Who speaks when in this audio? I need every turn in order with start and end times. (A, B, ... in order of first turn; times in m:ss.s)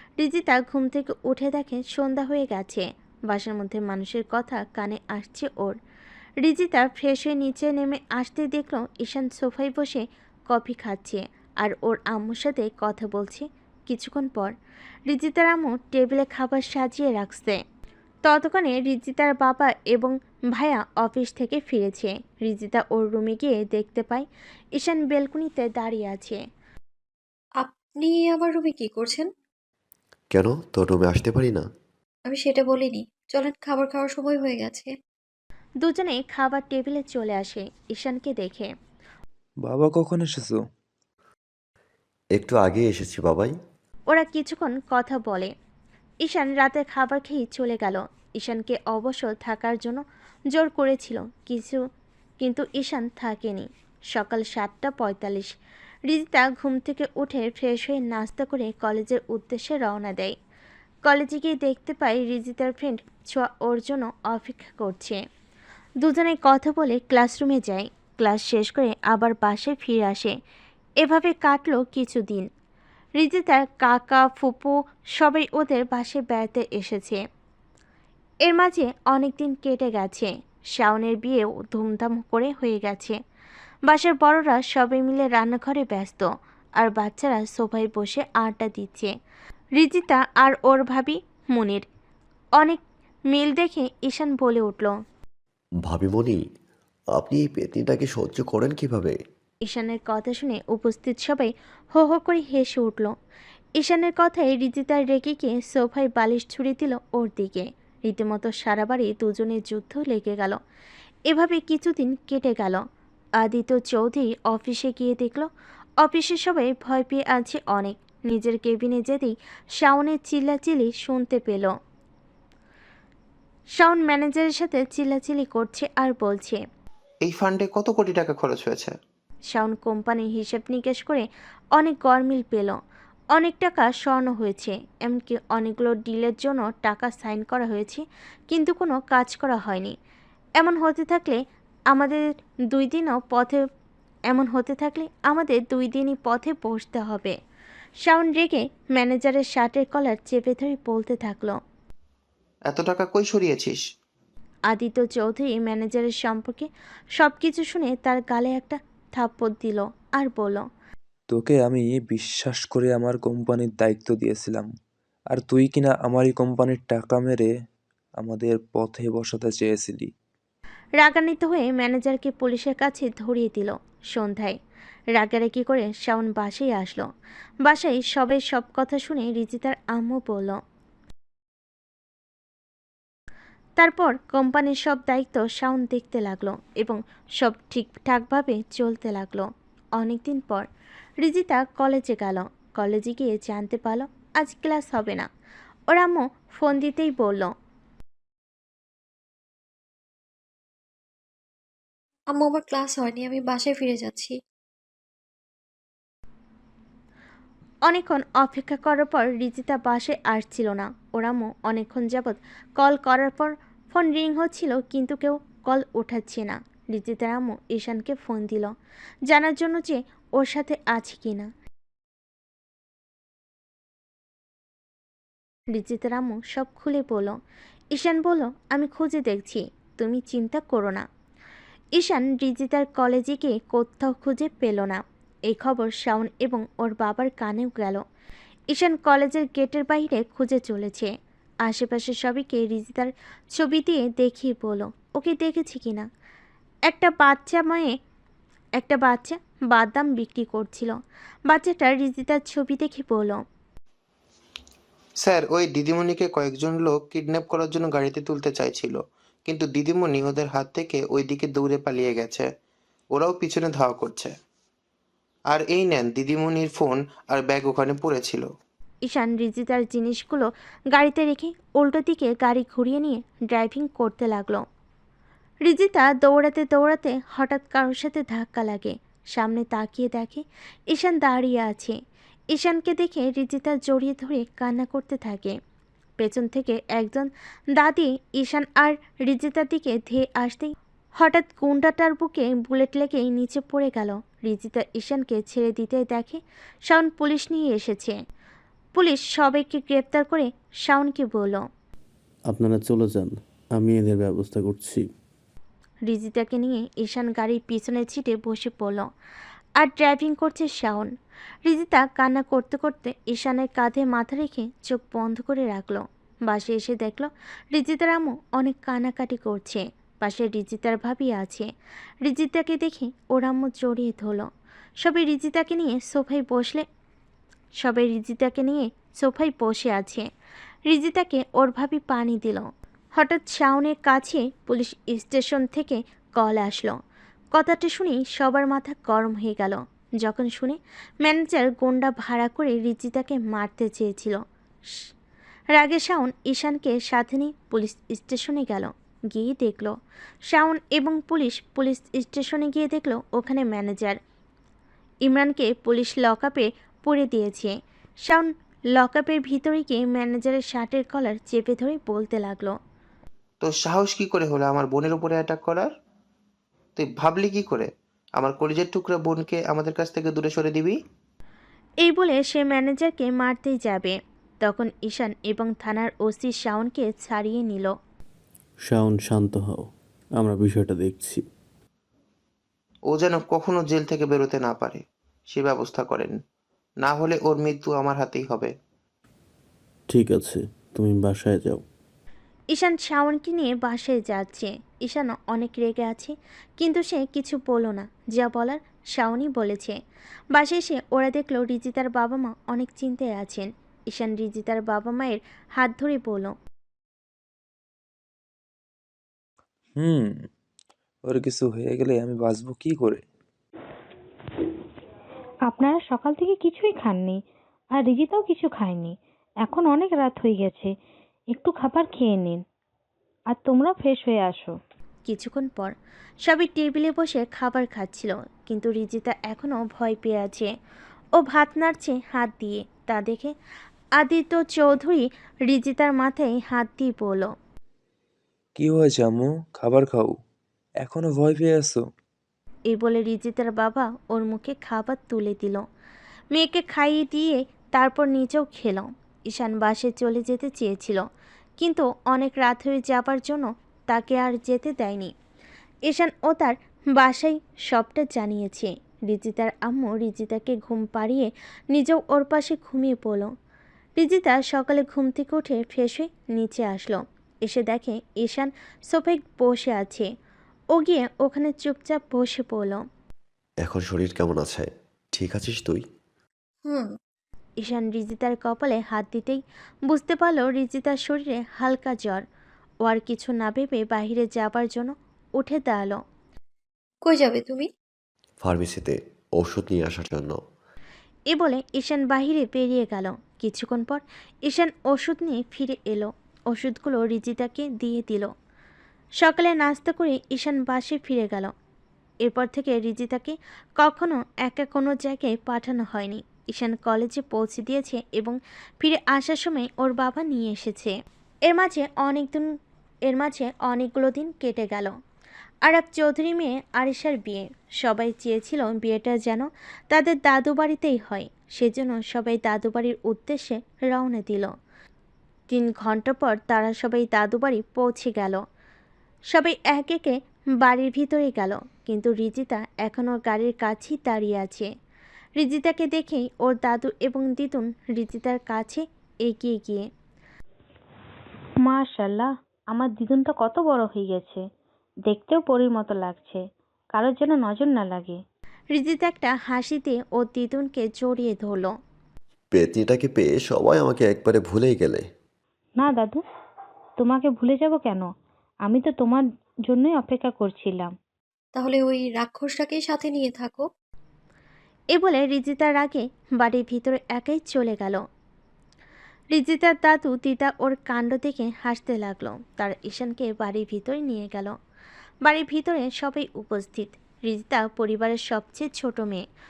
0:00.2-0:05.8 A
0:06.4-0:14.5 A
0:15.1-0:17.6 A
0:18.3-0:24.3 A
0:24.8-0:26.4 A
0:27.6-0:29.3 B
0:30.3-0:31.6 C
0:32.3-0:34.9 B
0:35.8-0:38.7 A
0:39.6-0:40.6 D
0:42.4-0:43.5 C
0:44.1-0:45.5 A
0:46.2-0:50.0 A
0:50.5-0:51.8 A
0:52.4-0:55.6 A
0:56.1-1:00.3 A
1:01.1-1:05.2 A
1:06.0-1:10.3 A
1:11.0-1:12.5 A
1:13.2-1:17.2 A
1:18.5-1:23.2 A
1:23.9-1:26.3 A
1:26.8-1:29.1 A
1:29.8-1:31.8 A
1:32.6-1:34.9 A
1:35.9-1:36.4 C
1:37.2-1:39.2 C
1:39.7-1:43.1 A
1:43.8-1:50.6 A
1:51.3-1:52.8 A
1:53.4-1:55.5 A
1:56.0-2:01.7 A
2:03.8-2:06.6 A
2:07.2-2:08.9 E
2:09.5-2:12.8 A
2:13.4-2:19.9 A
2:20.6-2:21.4 A
2:21.9-2:23.6 A
2:24.3-2:27.3 A
2:28.0-2:31.6 A
2:32.7-2:33.8 E
2:34.7-2:40.6 A
2:41.3-2:44.7 D
2:45.3-2:47.5 D
2:48.2-2:50.1 D
2:51.0-2:54.6 A
2:55.2-2:57.1 A
2:57.6-3:00.6 A
3:03.8-3:09.5 A
3:10.0-3:10.7 A
3:11.2-3:15.3 A
3:15.9-3:17.5 A
3:22.3-3:24.4 B
3:27.9-3:38.7 A
3:39.3-3:41.5 A
3:45.7-3:47.3 A
3:47.9-3:51.0 A
3:52.0-3:58.0 A
3:58.7-4:01.1 A
4:01.6-4:06.1 A
4:06.9-4:08.0 A
4:08.8-4:11.0 A
4:11.5-4:13.4 A
4:15.2-4:22.5 E
4:23.1-4:24.3 E
4:25.5-4:28.5 E
4:29.1-4:34.6 A
4:35.7-4:42.0 A
4:42.5-4:45.6 A
4:46.2-4:58.2 A
4:59.0-5:01.6 A
5:02.5-5:05.1 F
5:06.1-5:09.1 A
5:09.8-5:11.1 A
5:11.7-5:21.7 A
5:22.2-5:24.5 A
5:25.0-5:26.8 A
5:27.8-5:30.3 A
5:30.9-5:32.6 A
5:33.2-5:36.9 A
5:37.6-5:44.4 A
5:45.8-5:49.9 A
5:50.5-5:54.2 A
5:55.3-5:57.7 A
5:58.3-6:02.7 A
6:03.6-6:05.9 E
6:07.0-6:07.9 E
6:08.4-6:11.0 E
6:12.0-6:17.9 A
6:18.8-6:21.4 F
6:23.1-6:26.4 E
6:27.0-6:28.7 E
6:30.1-6:31.8 F
6:32.7-6:40.0 A
6:40.5-6:46.5 A
6:50.0-6:50.5 D
6:51.2-6:53.2 D
6:55.7-6:57.4 G
6:58.0-7:00.9 G
7:01.5-7:02.6 G
7:03.5-7:04.8 G
7:05.3-7:05.9 A
7:06.5-7:10.7 A
7:11.4-7:13.5 A
7:14.2-7:17.5 A
7:18.8-7:20.4 D
7:21.0-7:22.0 D
7:22.9-7:25.8 A
7:26.5-7:31.2 A
7:31.8-7:35.3 A
7:36.1-7:43.5 A
7:44.2-7:50.3 A
7:51.0-7:53.0 A
7:53.8-7:56.0 C
7:56.8-7:57.1 B
7:57.8-8:02.4 A
8:03.0-8:06.2 A
8:07.2-8:07.9 B
8:08.6-8:10.6 C
8:11.5-8:18.5 A
8:19.4-8:21.7 A
8:22.5-8:31.1 A
8:31.7-8:32.7 A
8:33.3-8:35.1 A
8:35.9-8:44.7 A
8:45.7-8:48.6 A
8:49.5-8:54.9 A
8:55.6-9:00.1 A
9:01.8-9:04.6 G
9:05.3-9:06.6 G
9:07.1-9:08.4 G
9:08.9-9:11.9 A
9:12.8-9:15.2 C
9:16.0-9:16.4 G
9:17.2-9:18.3 G
9:18.9-9:21.1 G
9:21.8-9:23.8 B
9:25.2-9:28.2 A
9:29.5-9:34.7 A
9:35.5-9:39.4 A